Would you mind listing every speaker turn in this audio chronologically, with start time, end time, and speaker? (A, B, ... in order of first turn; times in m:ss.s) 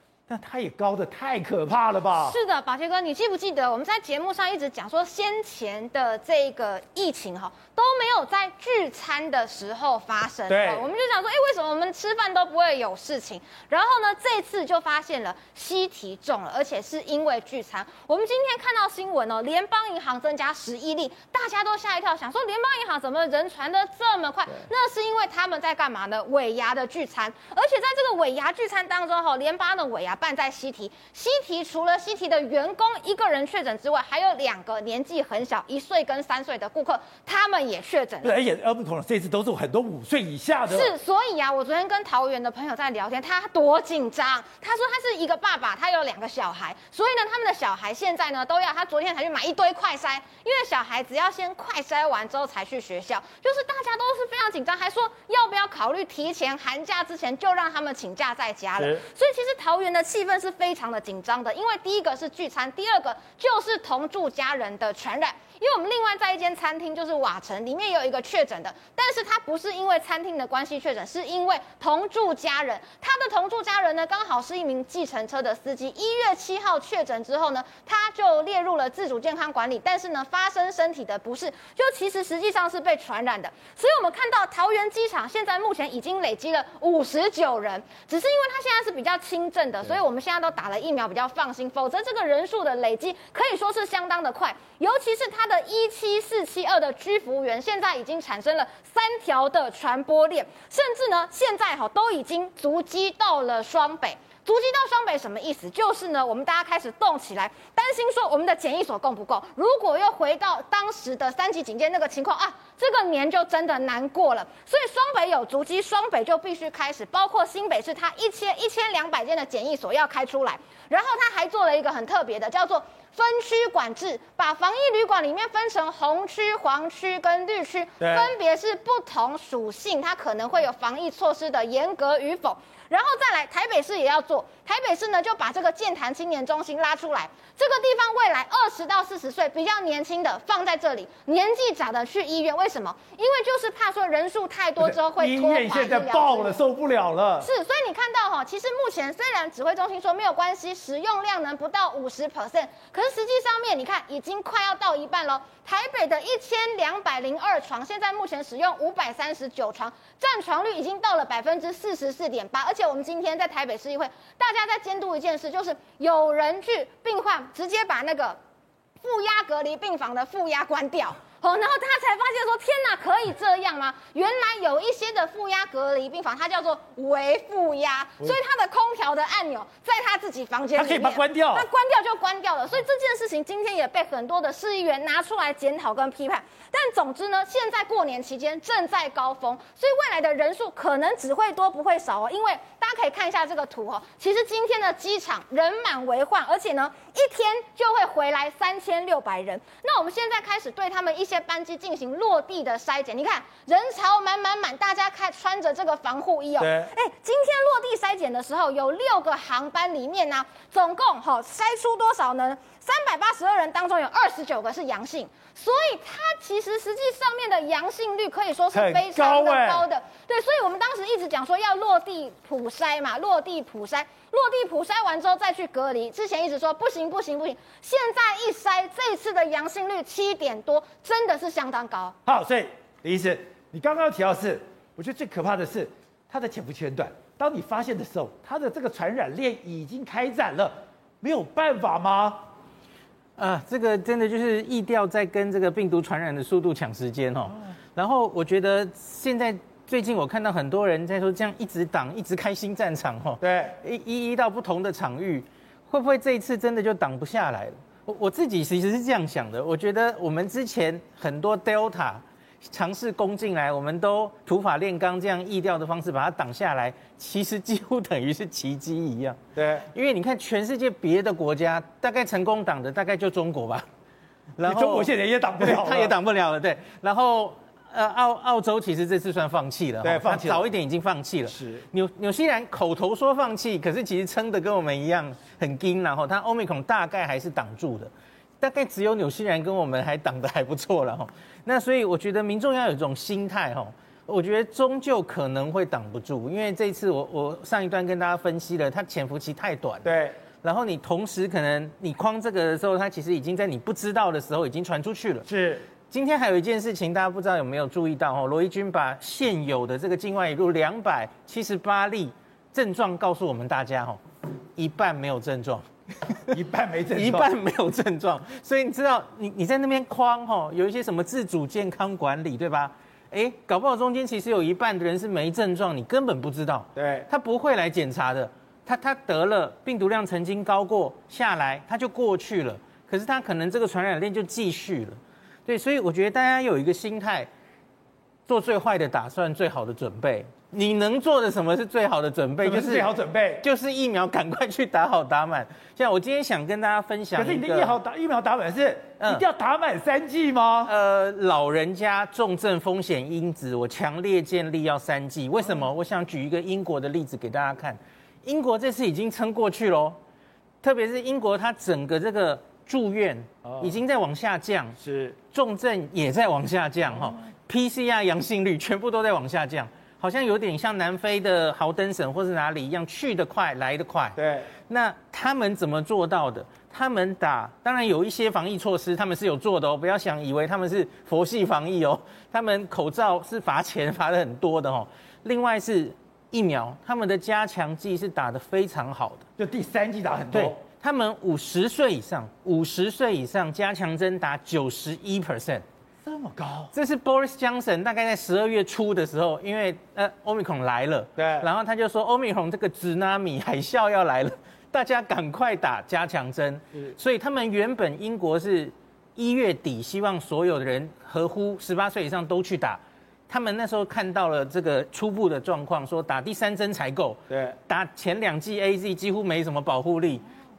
0:00.3-0:02.4 A
0:02.2-0:38.3 B
0:10.5-0:10.9 A
0:38.2-0:40.9 A
0:40.7-2:26.5 B
0:58.8-0:59.0 A
2:08.0-2:08.3 A
2:24.8-2:27.5 A
2:27.4-2:48.4 B
2:49.0-3:52.2 B
3:00.8-3:01.7 A
3:26.6-3:26.9 A
3:38.7-3:39.8 A
3:52.2-4:02.5 A
4:03.4-4:29.4 C
4:13.4-4:13.8 A
4:29.6-4:29.9 A
4:29.9-4:33.8 C
4:34.6-5:00.1 C
4:34.6-4:36.1 A
4:40.0-4:40.6 A
4:41.5-4:41.9 A
5:00.0-5:00.4 A
5:00.6-5:05.4 C
5:05.4-5:05.8 A
5:06.1-5:14.2 C
5:14.8-5:16.6 C
5:16.5-5:17.5 A
5:17.1-5:37.5 C
5:26.9-5:27.3 A
5:38.4-5:43.1 C
5:42.6-5:43.6 A
5:43.6-5:48.0 C
5:47.4-5:50.9 A
5:50.8-6:00.2 C
6:00.8-6:05.0 C
6:03.6-6:04.0 A
6:05.0-6:05.4 A
6:05.5-6:29.5 C
6:14.4-6:14.7 A
6:29.6-6:30.8 A
6:30.5-6:35.8 C
6:36.2-6:36.9 A
6:36.9-7:00.4 C
6:41.4-6:41.7 A
6:57.5-6:57.8 A